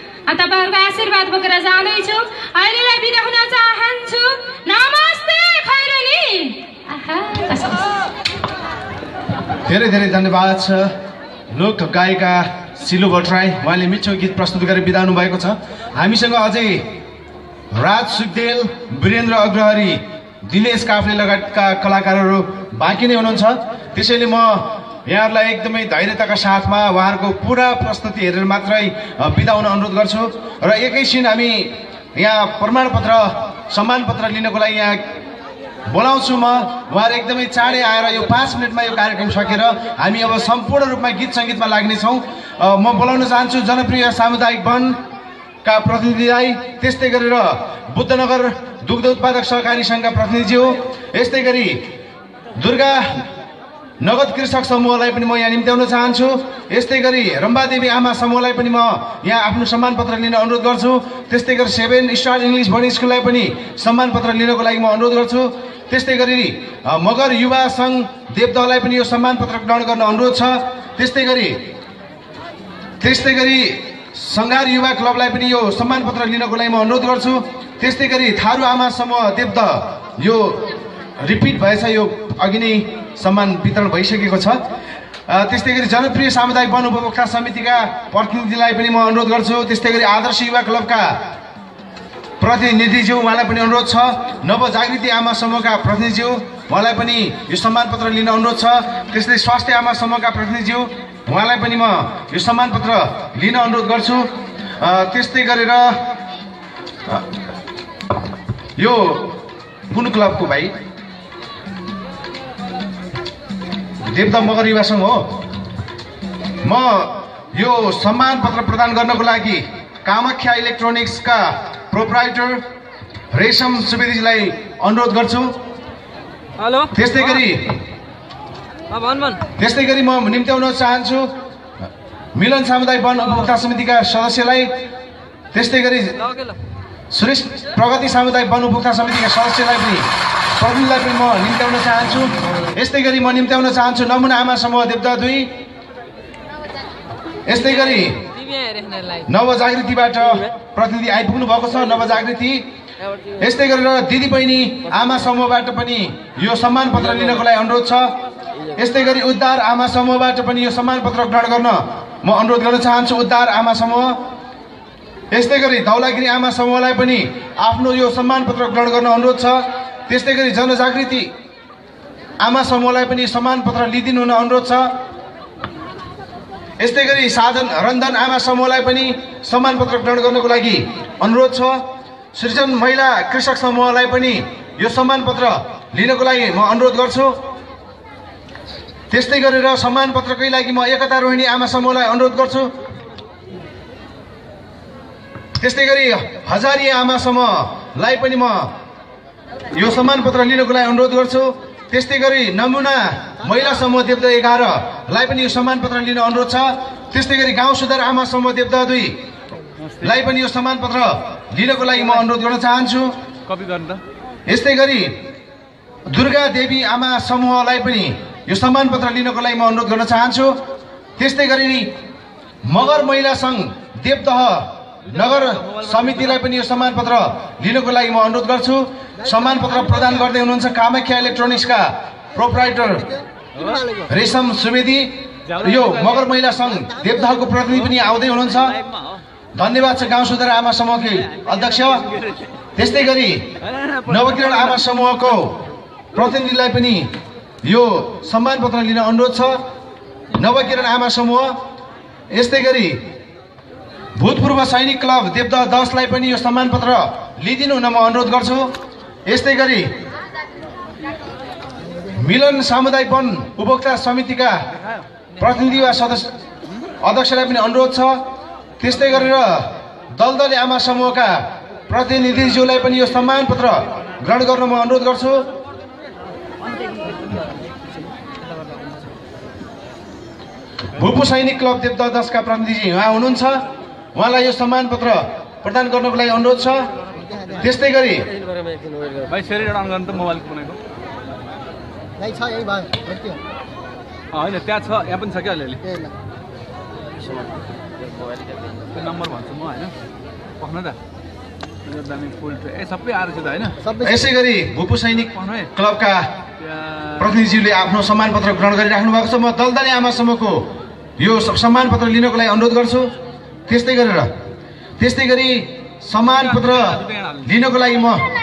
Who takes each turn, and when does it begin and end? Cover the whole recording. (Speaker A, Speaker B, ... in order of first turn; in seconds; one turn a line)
Speaker A: 0.3-7.9
Speaker B: 9.7-10.9
Speaker B: 11.5-16.9
Speaker B: 17.7-35.1
Speaker B: 35.9-45.0
Speaker B: 45.6-51.8
Speaker B: 52.6-53.2
Speaker B: 54.0-71.6
Speaker B: 73.0-84.6
Speaker B: 85.3-91.2
Speaker B: 92.4-106.0
Speaker B: 108.8-109.4
Speaker B: 109.9-110.7
Speaker B: 114.1-115.4
Speaker B: 116.6-122.6
Speaker B: 123.3-125.6
Speaker C: 126.6-126.9
Speaker B: 126.9-127.8
Speaker C: 128.9-129.4
Speaker B: 129.6-131.3
Speaker B: 132.3-134.7
Speaker B: 135.5-136.2
Speaker B: 137.1-145.5
Speaker B: 147.5-148.2
Speaker B: 149.3-152.7
Speaker B: 153.4-158.2
Speaker B: 158.8-164.2
Speaker B: 165.3-171.3
Speaker B: 172.4-174.9
Speaker B: 176.8-187.4
Speaker B: 189.1-192.7
Speaker B: 195.6-198.7
Speaker B: 199.7-209.2
Speaker B: 210.0-213.1
Speaker C: 213.5-214.0
Speaker B: 214.5-215.2
Speaker B: 216.1-220.6
Speaker B: 221.2-221.9
Speaker B: 222.7-233.1
Speaker C: 225.2-226.4
Speaker C: 233.6-233.9
Speaker B: 234.1-238.8
Speaker C: 235.5-236.3
Speaker B: 239.6-242.1
Speaker C: 242.1-242.4
Speaker B: 242.8-245.6
Speaker C: 243.6-244.8
Speaker B: 246.1-247.1
Speaker B: 247.6-249.6
Speaker B: 250.3-251.6
Speaker B: 252.3-253.0
Speaker B: 254.2-258.7
Speaker B: 259.3-259.9
Speaker B: 262.1-264.6
Speaker B: 265.4-266.3
Speaker B: 267.0-268.3
Speaker B: 268.8-275.5
Speaker B: 280.9-286.9
Speaker B: 287.6-288.3
Speaker C: 289.3-290.8
Speaker C: 294.3-296.0
Speaker C: 298.9-299.9
Speaker C: 300.6-301.0
Speaker C: 301.9-303.9
Speaker B: 303.9-306.3
Speaker C: 305.3-305.7
Speaker C: 306.6-307.3
Speaker B: 307.2-310.7
Speaker B: 311.2-313.1
Speaker B: 313.7-314.3
Speaker B: 315.0-318.3
Speaker C: 316.4-317.5